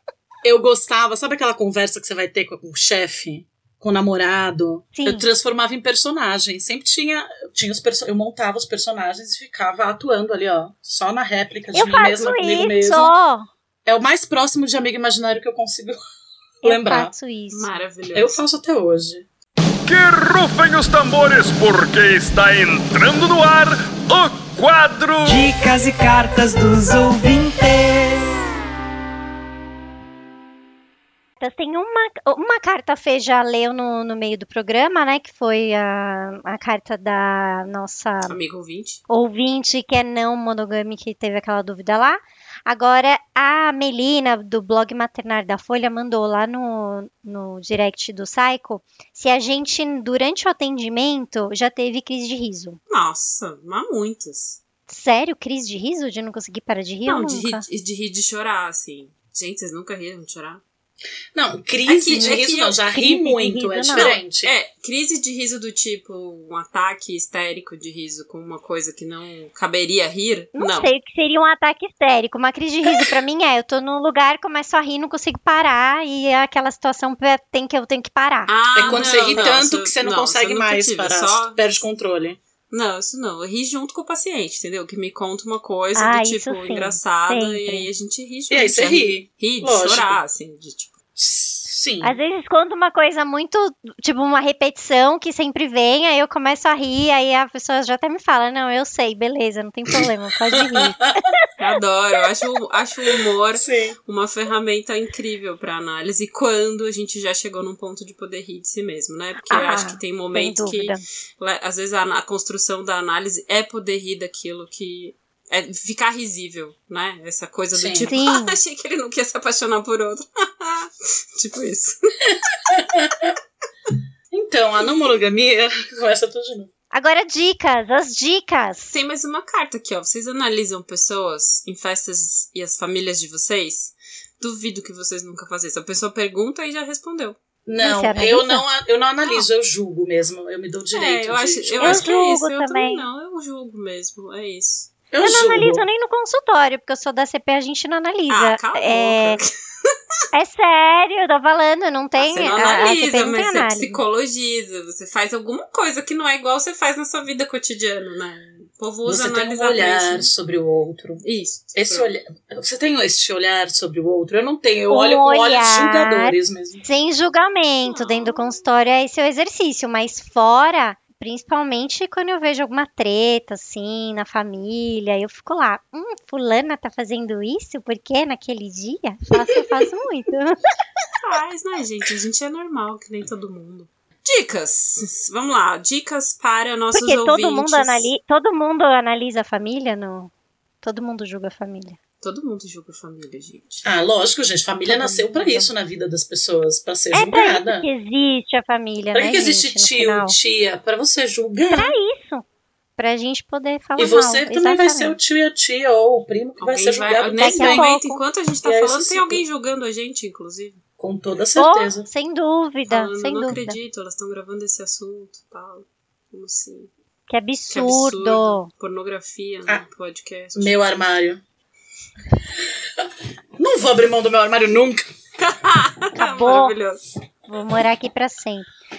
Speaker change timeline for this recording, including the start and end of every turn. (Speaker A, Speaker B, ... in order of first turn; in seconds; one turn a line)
Speaker A: 0.4-13.1
Speaker B: 5.0-5.2
Speaker B: 11.7-13.5
Speaker A: 13.8-16.0
Speaker A: 16.6-17.1
Speaker B: 16.6-17.7
Speaker C: 17.5-18.4
Speaker A: 18.1-19.3
Speaker D: 19.9-25.5
Speaker E: 25.2-28.4
Speaker B: 31.4-38.4
Speaker C: 38.3-39.0
Speaker B: 39.1-52.8
Speaker C: 52.9-54.6
Speaker B: 54.9-57.6
Speaker C: 57.0-60.6
Speaker A: 61.4-64.5
Speaker C: 61.9-62.8
Speaker B: 62.9-64.2
Speaker C: 63.9-70.9
Speaker B: 70.5-79.5
Speaker C: 78.5-81.6
Speaker A: 78.7-82.4
Speaker C: 82.7-91.0
Speaker B: 86.0-87.9
Speaker A: 88.5-90.2
Speaker A: 91.2-92.1
Speaker B: 92.0-101.3
Speaker A: 100.5-101.1
Speaker C: 101.6-122.6
Speaker A: 103.6-104.0
Speaker B: 109.5-111.0
Speaker A: 117.7-118.1
Speaker B: 118.0-118.6
Speaker A: 122.7-123.3
Speaker A: 124.3-126.7
Speaker B: 126.9-129.0
Speaker C: 128.9-137.4
Speaker A: 137.7-142.1
Speaker B: 137.8-138.6
Speaker C: 140.9-144.9
Speaker B: 141.8-143.1
Speaker A: 145.1-145.9
Speaker B: 145.2-149.4
Speaker C: 148.3-149.5
Speaker B: 150.3-154.0
Speaker C: 152.2-160.3
Speaker A: 159.1-161.2
Speaker C: 161.2-162.1
Speaker A: 161.7-166.8
Speaker B: 164.9-180.6
Speaker C: 167.8-168.5
Speaker C: 181.2-188.1
Speaker B: 186.9-190.3
Speaker B: 190.8-192.0
Speaker C: 192.2-193.8
Speaker A: 193.8-197.9
Speaker B: 194.8-195.7
Speaker B: 197.1-200.3
Speaker A: 199.1-201.9
Speaker B: 201.7-202.4
Speaker B: 203.0-205.2
Speaker A: 204.0-207.9
Speaker C: 206.6-210.8
Speaker B: 207.4-208.2
Speaker A: 208.6-209.4
Speaker A: 211.0-212.1
Speaker B: 211.6-213.8
Speaker C: 212.9-216.9
Speaker B: 217.3-218.7
Speaker C: 217.7-221.0
Speaker A: 220.6-221.4
Speaker A: 222.6-223.1
Speaker A: 223.6-225.1
Speaker C: 225.4-227.0
Speaker B: 226.2-226.7
Speaker B: 227.5-228.7